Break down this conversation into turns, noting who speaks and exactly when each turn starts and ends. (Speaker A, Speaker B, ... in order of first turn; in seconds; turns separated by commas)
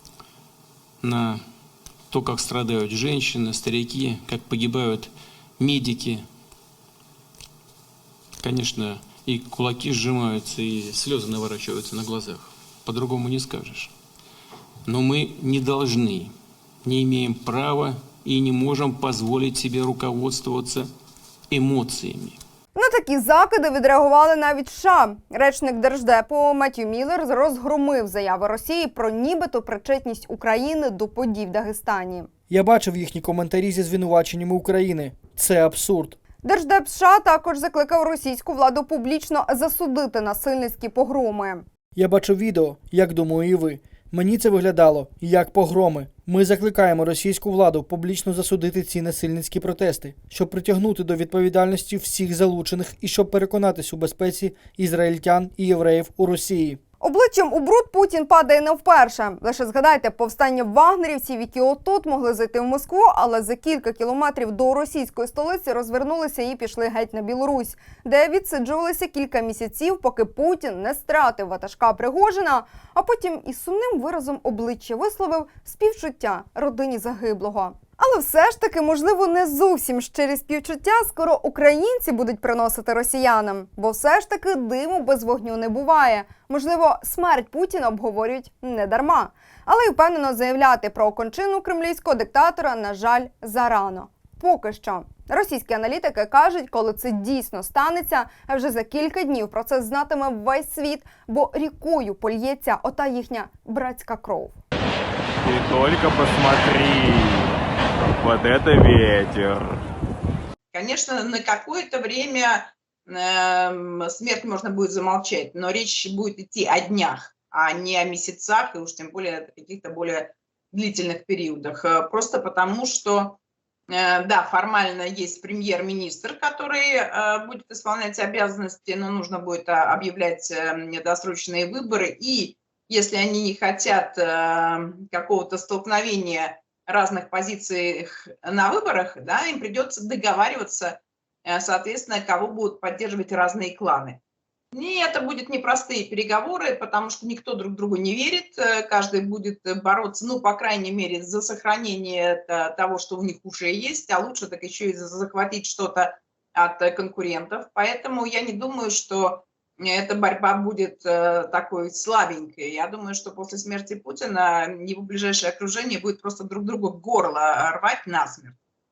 Speaker A: 1.0-1.4, Speaker A: 2.1-6.2, Speaker A: 8.4-13.9, Speaker A: 14.9-16.3, Speaker A: 16.9-20.9, Speaker A: 21.5-22.4, Speaker B: 22.8-32.3, Speaker C: 32.5-36.2, Speaker B: 36.4-41.6, Speaker C: 42.0-56.8, Speaker B: 57.0-104.6, Speaker D: 105.4-107.6, Speaker D: 108.2-109.8, Speaker E: 110.7-123.4, Speaker E: 123.9-144.2, Speaker E: 144.7-168.6